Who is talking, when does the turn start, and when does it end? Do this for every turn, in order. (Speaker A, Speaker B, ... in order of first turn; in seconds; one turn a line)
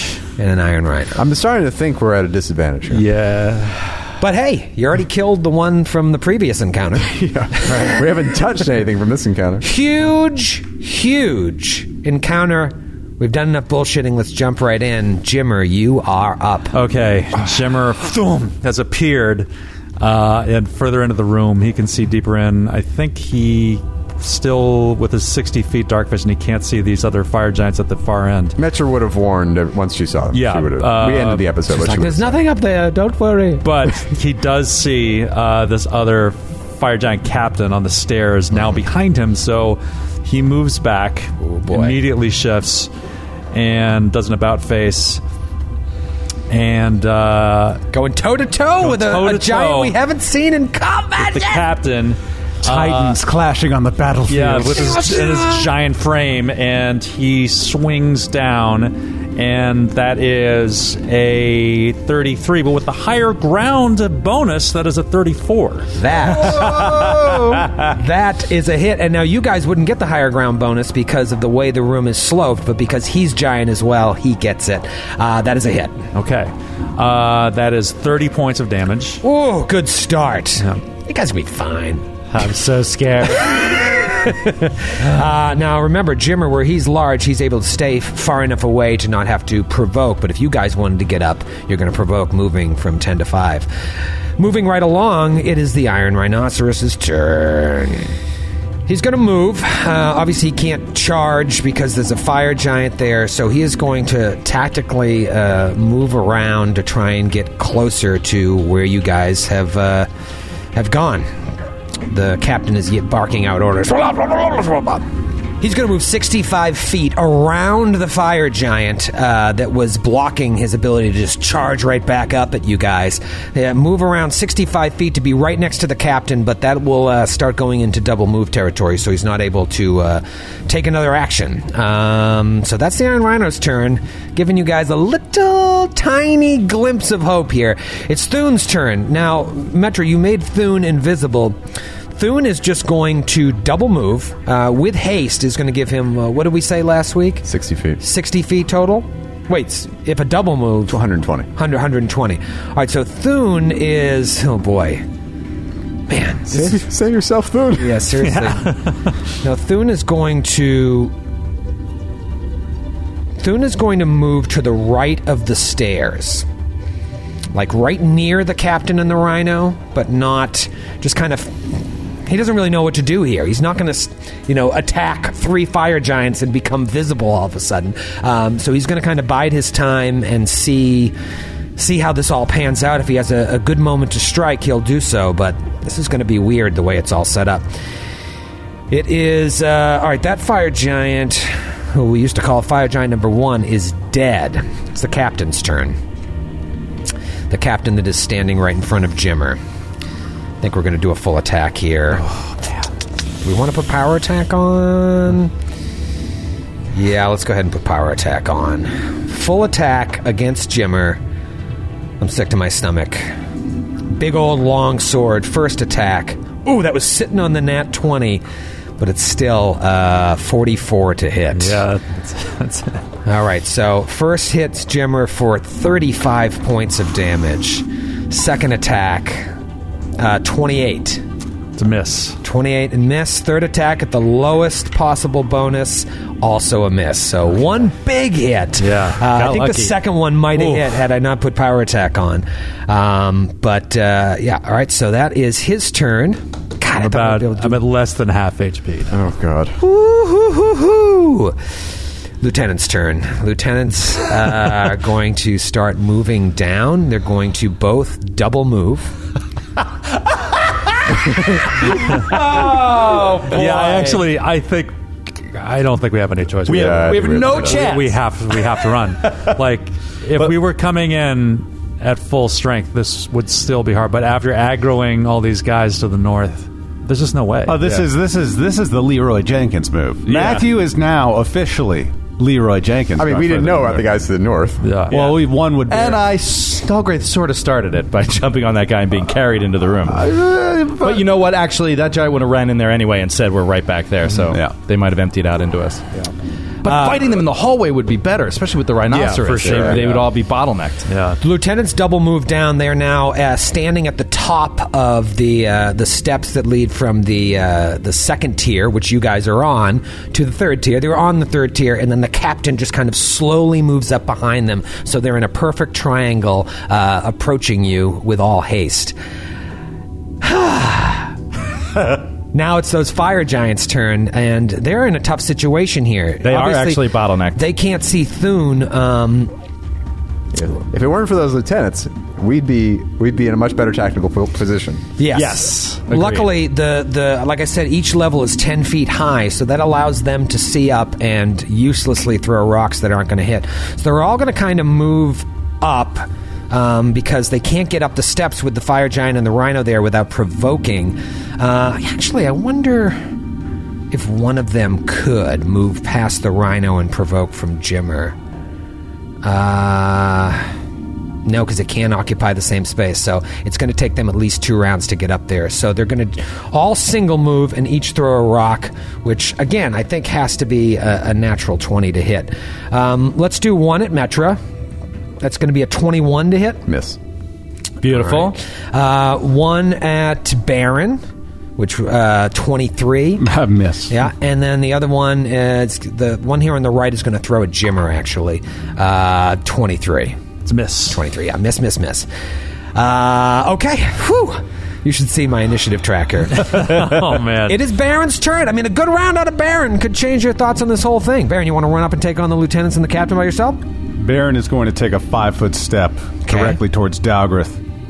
Speaker A: 0.4-1.2
Speaker B: 1.2-3.0
Speaker C: 2.9-3.9
Speaker A: 4.2-8.0
Speaker B: 7.0-9.7
Speaker A: 9.6-16.8
Speaker C: 16.7-19.5
Speaker C: 20.0-28.6
Speaker B: 28.6-32.4
Speaker C: 30.3-31.5
Speaker A: 31.7-33.7
Speaker C: 33.6-42.9
Speaker A: 41.4-42.0
Speaker C: 43.5-45.2
Speaker C: 46.5-47.8
Speaker A: 47.9-51.7
Speaker C: 48.8-50.0
Speaker C: 51.2-53.2
Speaker D: 52.6-55.4
Speaker C: 54.3-67.9
Speaker A: 54.8-55.5
Speaker A: 66.0-76.0
Speaker C: 76.1-79.2
Speaker A: 79.2-82.1
Speaker C: 82.3-83.6
Speaker A: 83.2-93.7
Speaker A: 94.4-98.1
Speaker A: 98.9-110.1
Speaker A: 110.7-111.3
Speaker A: 112.1-115.1
Speaker A: 115.6-141.6
Speaker A: 142.1-147.5
Speaker B: 147.4-148.0
Speaker A: 148.0-151.0
Speaker B: 150.9-151.5
Speaker A: 151.6-155.0
Speaker A: 156.1-156.8
Speaker B: 156.5-158.0
Speaker A: 157.8-158.7
Speaker A: 159.4-161.1
Speaker A: 163.4-166.5
Speaker A: 167.5-181.1
Speaker A: 181.8-187.7
Speaker A: 188.9-196.0
Speaker A: 197.5-199.6
Speaker A: 200.6-202.3
Speaker A: 203.4-205.5
Speaker A: 206.9-211.2
Speaker A: 212.2-213.3
Speaker A: 214.1-218.4
Speaker A: 219.0-221.8
Speaker C: 221.5-223.0
Speaker A: 223.3-229.5
Speaker A: 230.2-231.2
Speaker C: 231.8-232.4
Speaker A: 232.4-247.8
Speaker C: 238.8-240.0
Speaker C: 240.5-240.8
Speaker C: 246.9-249.2
Speaker B: 249.1-249.8
Speaker A: 249.8-251.6
Speaker A: 252.4-259.1
Speaker C: 261.9-278.1
Speaker E: 262.3-264.2
Speaker B: 266.7-267.9
Speaker E: 266.7-268.7
Speaker D: 277.6-284.1
Speaker C: 280.3-280.6
Speaker B: 283.2-284.8
Speaker C: 284.8-285.4
Speaker D: 285.1-286.3
Speaker E: 285.1-290.3
Speaker D: 290.1-291.3
Speaker E: 291.0-296.1
Speaker D: 294.4-294.7
Speaker E: 296.8-301.1
Speaker A: 296.9-297.2
Speaker C: 299.1-300.2
Speaker D: 299.2-300.3
Speaker C: 301.1-301.4
Speaker A: 301.4-319.1
Speaker A: 320.4-321.3
Speaker A: 322.5-329.5
Speaker E: 326.4-327.6
Speaker B: 330.5-335.0
Speaker A: 335.2-353.2
Speaker E: 335.3-336.5
Speaker A: 354.1-358.4
Speaker A: 359.4-360.7
Speaker A: 361.4-374.6
Speaker A: 375.4-376.8
Speaker B: 376.9-377.2
Speaker E: 378.0-378.6
Speaker A: 378.0-381.2
Speaker A: 381.8-383.5
Speaker D: 383.4-384.1
Speaker A: 384.1-390.4
Speaker C: 390.6-391.2
Speaker A: 391.1-392.3
Speaker A: 392.9-403.8
Speaker C: 396.6-397.8
Speaker D: 404.2-407.8
Speaker A: 406.4-406.8